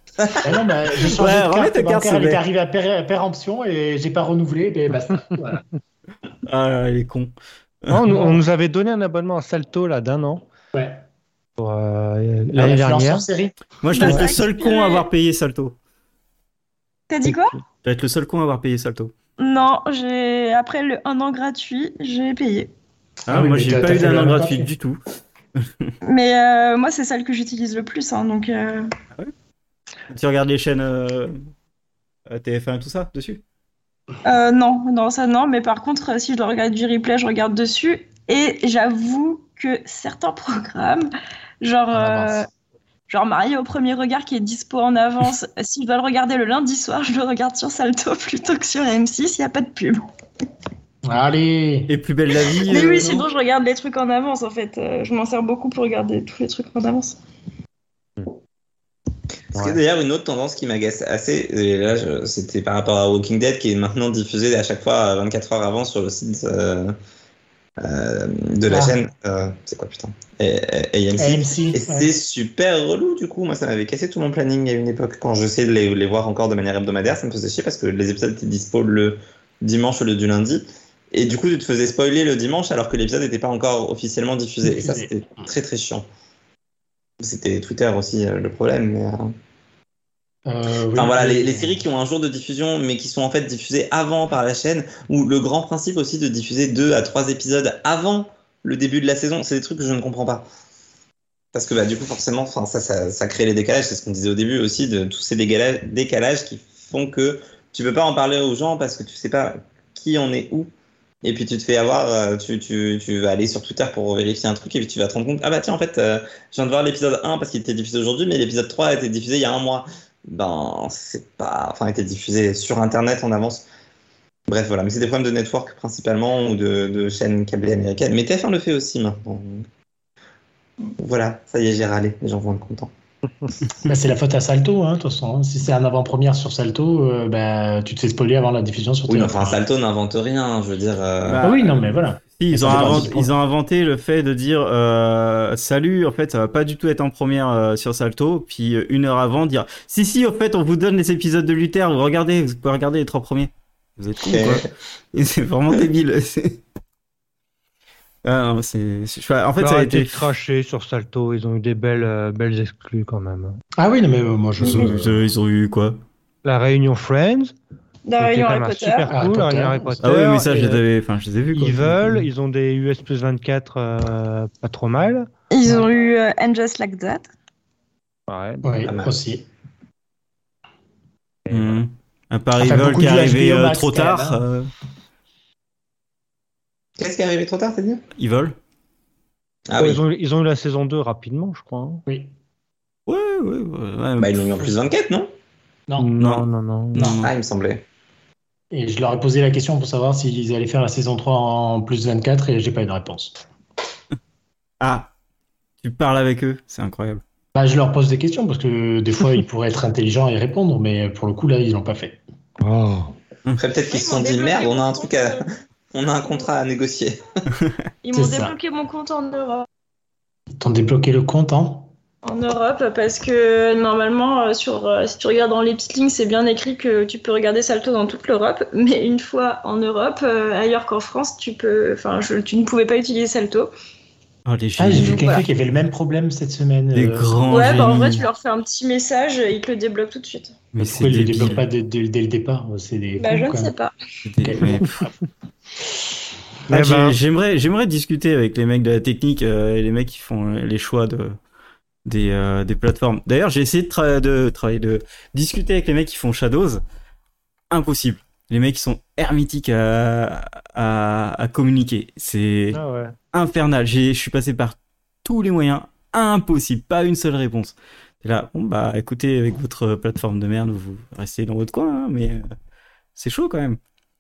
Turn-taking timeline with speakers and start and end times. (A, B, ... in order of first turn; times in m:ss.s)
0:00.4-0:05.6 A
0:01.0-0:02.4 B
0:06.5-0:07.3 B
0:07.9-0:10.4 C
0:08.1-0:08.4 A
0:10.7-0:11.0 A
0:11.6-0:13.3 C
0:12.6-0:13.6 A
0:13.8-0:15.8 B
0:13.9-0:15.1 D
0:17.1-0:17.6 D
0:17.2-0:17.6 C
0:17.8-0:19.1 B
0:19.4-0:22.7 D
0:23.3-0:25.0 B
0:23.3-0:24.7 A
0:25.6-0:25.9 B
0:26.0-0:28.9 D
0:30.1-0:31.4 B
0:32.3-0:33.4 B
0:34.2-0:41.1 D
0:41.6-0:42.5 D
0:41.9-0:42.4 A
0:43.1-0:50.0 D
0:51.0-0:51.9 A
0:51.9-0:53.2 B
0:52.7-0:57.2 D
0:59.5-1:07.0 E
1:07.8-1:26.1 E
1:08.7-1:09.0 A
1:11.2-1:12.1 A
1:24.6-1:25.1 A
1:27.2-1:29.3 E
1:30.5-1:31.8 A
1:30.9-1:40.5 E
1:41.5-1:50.7 E
1:51.2-2:03.6 E
2:04.5-2:09.7 E
2:11.0-2:12.9 E
2:13.8-2:19.6 A
2:19.1-2:21.6 E
2:21.2-2:21.7 B
2:21.4-2:23.3 A
2:22.3-2:36.6 B
2:22.6-2:23.2 E
2:34.2-2:34.7 E
2:38.2-2:40.3 B
2:39.6-2:43.6 C
2:43.8-2:45.2 A
2:44.6-2:46.0 B
2:46.4-2:47.5 C
2:48.1-2:49.1 D
2:48.2-2:50.8 C
2:49.1-2:50.0 A
2:50.0-2:52.3 B
2:51.5-2:55.3 C
2:55.5-2:57.3 D
2:58.3-2:58.9 C
2:58.6-2:59.5 A
2:58.8-2:59.2 E
3:01.4-3:01.8 C
3:01.5-3:04.7 B
3:02.6-3:04.4 A
3:07.0-3:08.0 E
3:08.2-3:08.6 B
3:09.7-3:10.0 E
3:09.8-3:12.0 C
3:12.1-3:12.3 A
3:13.1-3:14.8 B
3:14.2-3:15.3 E
3:15.9-3:16.1 A
3:16.0-3:17.1 C
3:16.2-3:17.3 B
3:17.0-3:17.8 E
3:18.7-3:23.5 A
3:24.8-3:25.1 B
3:25.8-3:27.2 B
3:27.6-3:32.2 A
3:32.6-3:33.1 C
3:33.6-3:37.2 E
3:33.9-3:35.4 D
3:38.0-3:39.7 D
3:38.2-3:38.5 A
3:40.6-3:41.9 A
3:42.2-3:53.7 D
3:54.5-3:55.3 B
3:54.8-3:57.5 A
3:54.9-3:55.4 D
3:56.9-3:58.3 B
3:57.5-4:00.6 D
4:00.7-4:01.7 B
4:00.8-4:03.7 A
4:03.2-4:03.9 D
4:04.2-4:05.0 B
4:04.4-4:05.1 A
4:06.7-4:07.2 C
4:06.7-4:11.4 B
4:12.0-4:16.8 B
4:17.7-4:22.8 B
4:22.7-4:23.2 C
4:23.3-4:32.5 B
4:33.2-4:33.8 B